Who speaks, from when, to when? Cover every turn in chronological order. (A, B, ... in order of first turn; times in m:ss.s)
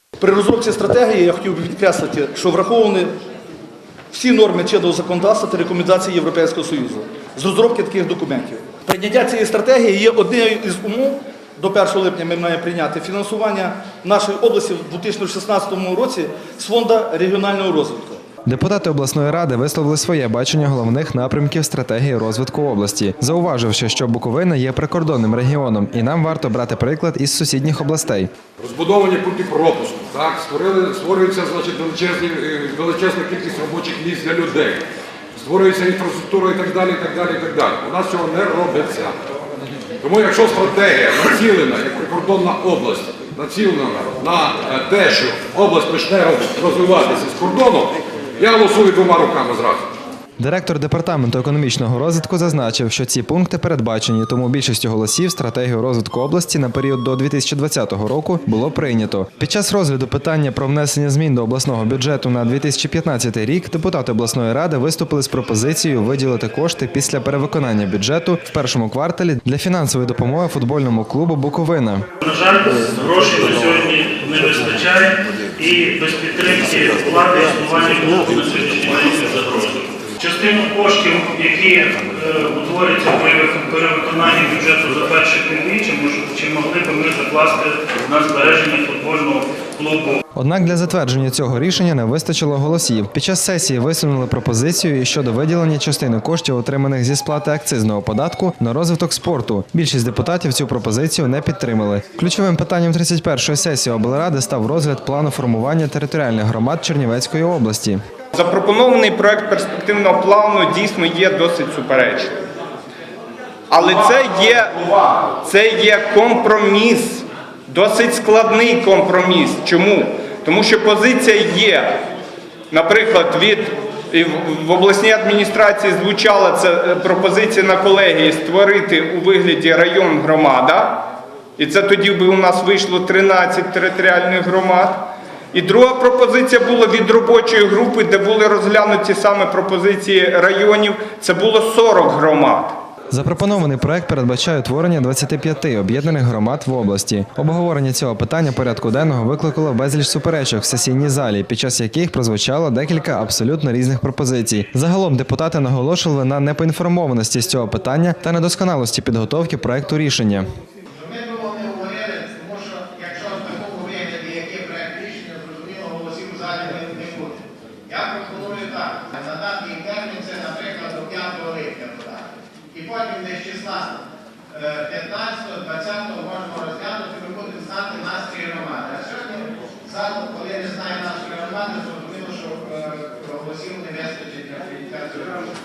0:00.2-0:03.0 A
0:04.2-0:18.1 A
0:18.5-0:28.3 B
0:28.6-0:34.8 C
0:35.4-0:39.1 C
0:40.0-0:49.9 C
0:50.4-1:12.0 B
1:12.2-1:30.2 D
1:30.4-1:48.0 B
1:48.3-1:52.4 E
1:53.7-2:02.0 E
2:02.7-2:11.1 E
2:11.6-2:22.8 E
2:23.1-2:40.5 B
2:40.9-2:54.0 F
2:54.5-3:05.5 F